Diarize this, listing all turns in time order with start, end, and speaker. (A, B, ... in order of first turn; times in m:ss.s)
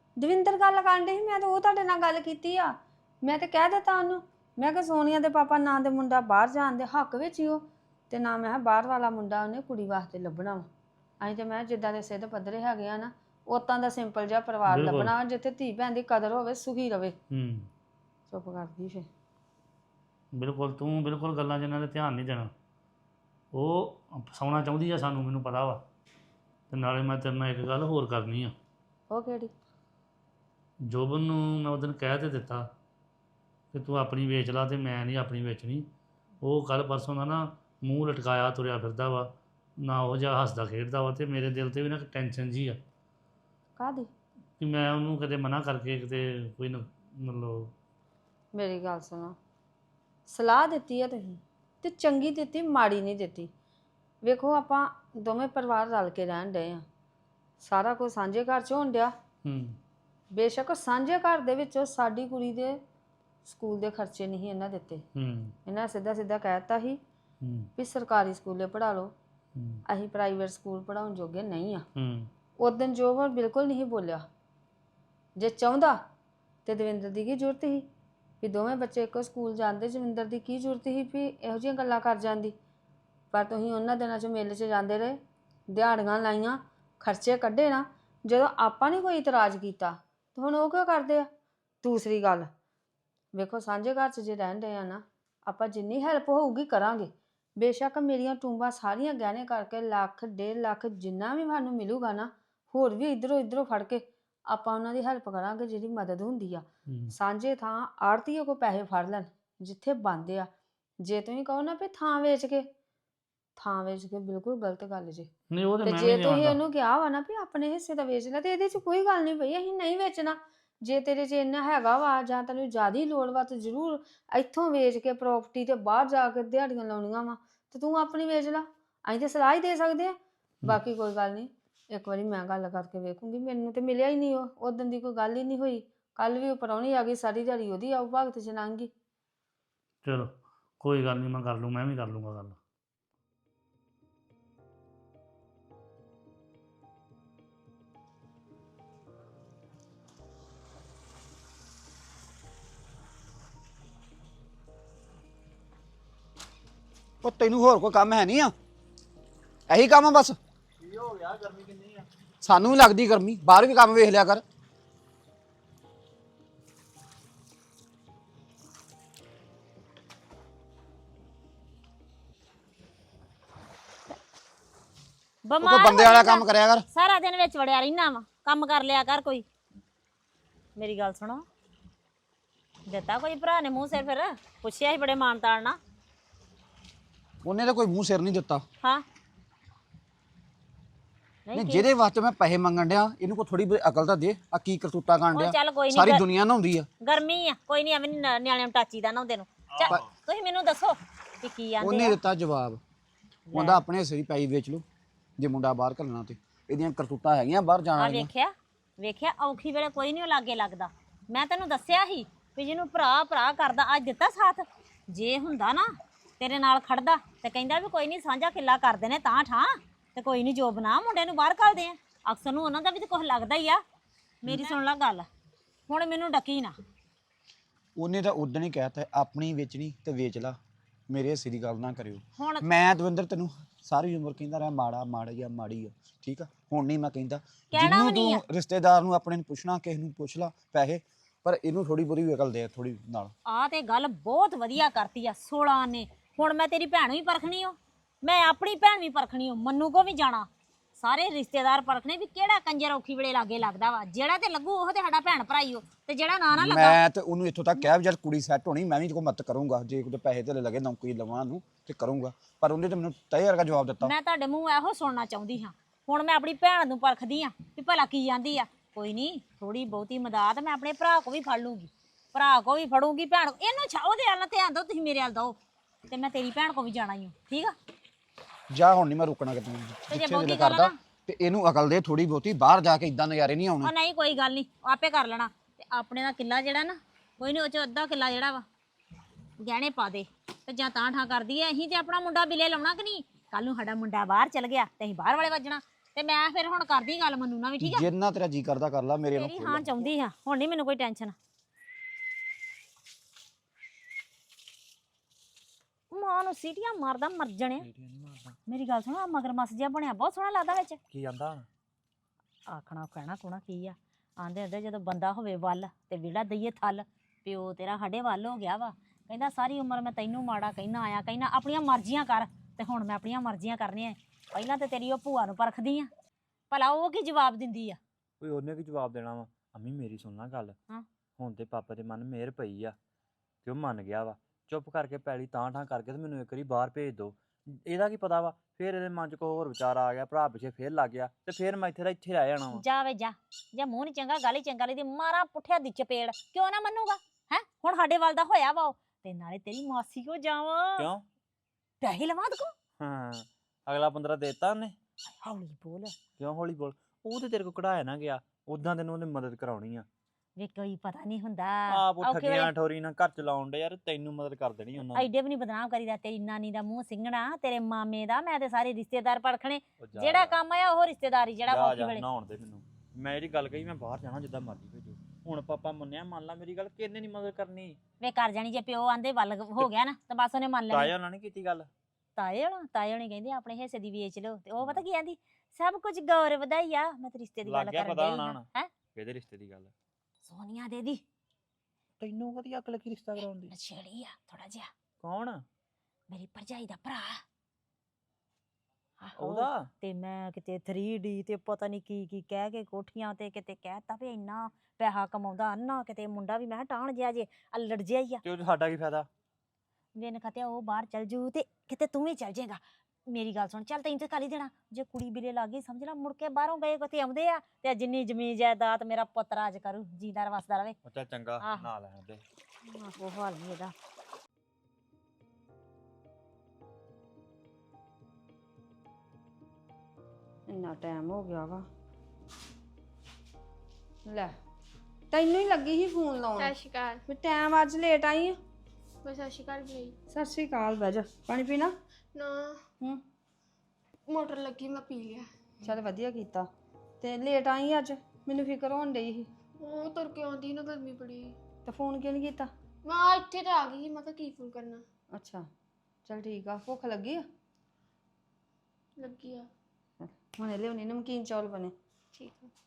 0:00.2-0:10.7 A
0:11.2-0:17.2 A
0:14.7-0:15.1 B
0:17.3-0:17.7 B
0:18.3-0:19.0 A
0:20.3-0:22.5 B
0:23.5-0:25.8 B
0:26.7-0:28.5 B
0:29.1-0:29.5 A
0:30.9-0:32.6 B
0:33.7-0:35.9 B
0:36.4-0:42.8 B
0:43.8-0:44.1 A
0:44.6-0:47.7 B
0:48.5-0:49.3 A
0:50.3-0:53.5 A
0:54.2-0:56.8 A
0:57.6-0:59.1 A
0:59.4-0:59.8 B
1:00.3-1:02.8 A
1:03.4-1:05.0 A
1:05.2-1:05.5 B
1:05.6-1:07.0 A
1:07.4-1:07.7 B
1:07.8-1:09.1 A
1:09.6-1:09.8 B
1:09.9-1:11.8 A
1:12.0-1:12.3 B
1:12.6-1:14.2 A
1:15.4-1:16.0 A
1:16.6-1:17.8 A
1:18.4-1:22.5 A
1:23.3-1:25.2 A
1:25.7-1:31.3 A
1:31.8-1:32.5 A
1:33.3-1:50.5 A
1:51.0-1:52.7 A
1:53.6-1:55.3 A
1:55.5-1:56.6 B
1:55.8-2:18.9 A
2:20.0-2:22.6 B
2:37.2-2:38.5 C
2:39.7-2:40.4 C
2:40.8-2:42.0 D
2:42.4-2:44.4 C
2:55.4-2:59.4 E
2:55.6-2:56.8 C
3:00.8-3:01.4 E
3:02.9-3:05.8 E
3:07.4-3:08.6 C
3:11.5-3:11.9 E
3:11.5-3:16.9 C
3:15.3-3:16.2 E
3:17.0-3:22.2 E
3:21.8-3:22.8 C
3:23.5-3:23.8 E
3:23.5-3:24.8 C
3:25.4-3:28.3 C
3:28.0-3:35.8 E
3:36.4-3:43.8 E
3:44.4-3:45.3 E
3:45.9-3:46.7 E
3:48.0-3:50.6 C
3:51.1-4:03.3 C
3:52.4-3:52.7 E
3:57.7-3:58.4 E
4:03.5-4:17.0 E
4:16.5-4:24.1 C
4:24.0-4:35.6 E
4:36.1-4:37.7 E
4:38.7-4:43.9 C
4:40.1-4:40.9 E
4:43.8-4:48.6 E
4:49.6-4:58.0 E
4:57.8-4:59.9 C
4:59.3-5:01.3 E
5:06.1-5:07.8 E
5:07.8-5:08.6 D
5:08.6-5:11.0 E
5:11.1-5:11.7 D
5:12.7-5:26.1 E
5:26.7-5:28.0 E
5:28.4-5:30.8 D
5:31.4-5:33.0 D
5:33.6-5:42.8 D
5:42.7-5:51.0 E
5:51.0-5:51.2 D
5:52.0-5:52.7 E
5:53.0-5:55.0 D
5:55.4-5:56.1 E
5:56.4-6:00.1 D
6:00.6-6:02.7 E
6:01.9-6:05.3 D
6:05.1-6:12.2 E
6:10.0-6:10.6 D
6:11.7-6:18.0 D
6:18.2-6:21.1 E
6:20.9-6:21.9 D
6:22.4-6:28.9 E
6:24.8-6:25.0 D
6:27.6-6:29.9 D
6:30.4-6:31.2 E
6:32.2-6:33.7 D
6:33.7-6:34.9 E
6:35.2-6:35.6 D
6:36.3-6:37.4 E
6:39.2-6:48.4 E
6:39.3-6:39.9 D
6:48.4-6:49.3 D
6:50.2-7:01.0 E
7:01.0-7:02.4 D
7:01.6-7:01.9 E
7:02.9-7:03.4 A
7:03.4-7:03.9 E
7:10.7-7:11.8 A
7:14.2-7:14.5 A
7:15.3-7:16.7 A
7:16.6-7:17.2 F
7:17.3-7:18.6 A
7:19.2-7:20.1 F
7:20.3-7:21.9 A
7:22.3-7:22.8 F
7:24.3-7:25.4 F
7:25.8-7:26.7 A
7:27.2-7:29.5 A
7:29.8-7:31.6 F
7:31.8-7:32.7 A
7:33.0-7:35.0 F
7:35.4-7:35.6 A
7:36.2-7:37.4 A
7:39.2-7:39.7 F
7:40.2-7:41.9 A
7:42.4-7:42.7 F